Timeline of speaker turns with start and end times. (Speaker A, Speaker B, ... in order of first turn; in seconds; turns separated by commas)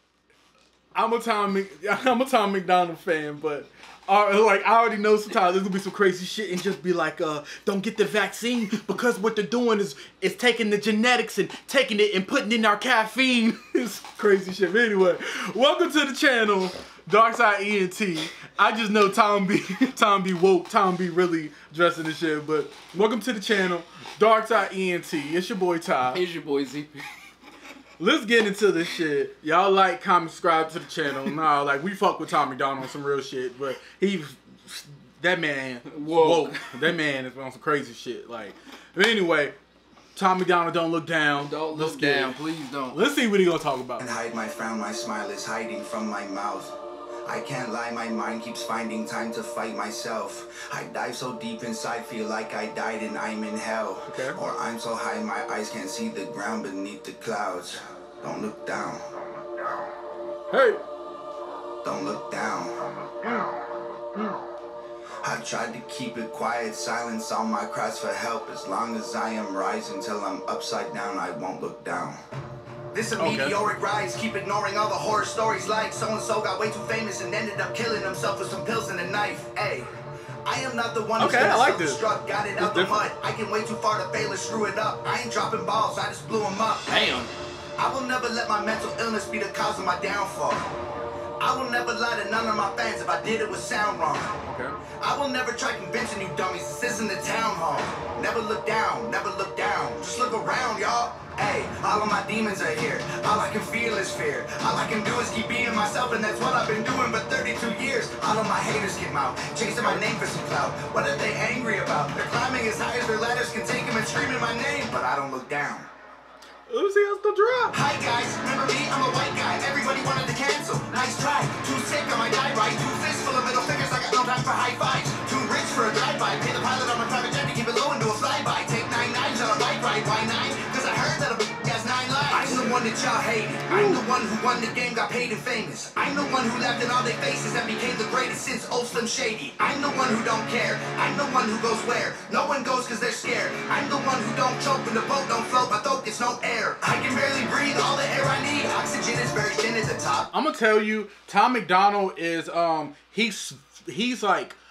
Speaker A: 0.9-26.2, Speaker B: 26.1-27.1, Speaker A: 28.0-39.5, Speaker B: 35.9-36.9, Speaker A: 40.1-42.4, Speaker B: 41.4-43.0, Speaker A: 42.9-44.1, Speaker C: 44.0-46.7, Speaker C: 47.3-59.0, Speaker A: 54.1-54.4, Speaker A: 60.5-60.8, Speaker C: 61.8-63.5, Speaker C: 65.2-72.2, Speaker C: 72.9-79.9, Speaker A: 73.2-73.7, Speaker C: 80.5-87.2, Speaker A: 81.2-82.0, Speaker A: 82.6-83.1, Speaker B: 86.9-87.3, Speaker C: 87.8-90.7, Speaker C: 91.4-94.4, Speaker A: 94.5-94.8, Speaker C: 95.0-115.9, Speaker A: 109.8-110.1, Speaker A: 116.7-117.8, Speaker C: 117.7-150.3, Speaker A: 132.3-132.9, Speaker A: 133.7-134.0, Speaker A: 150.3-154.6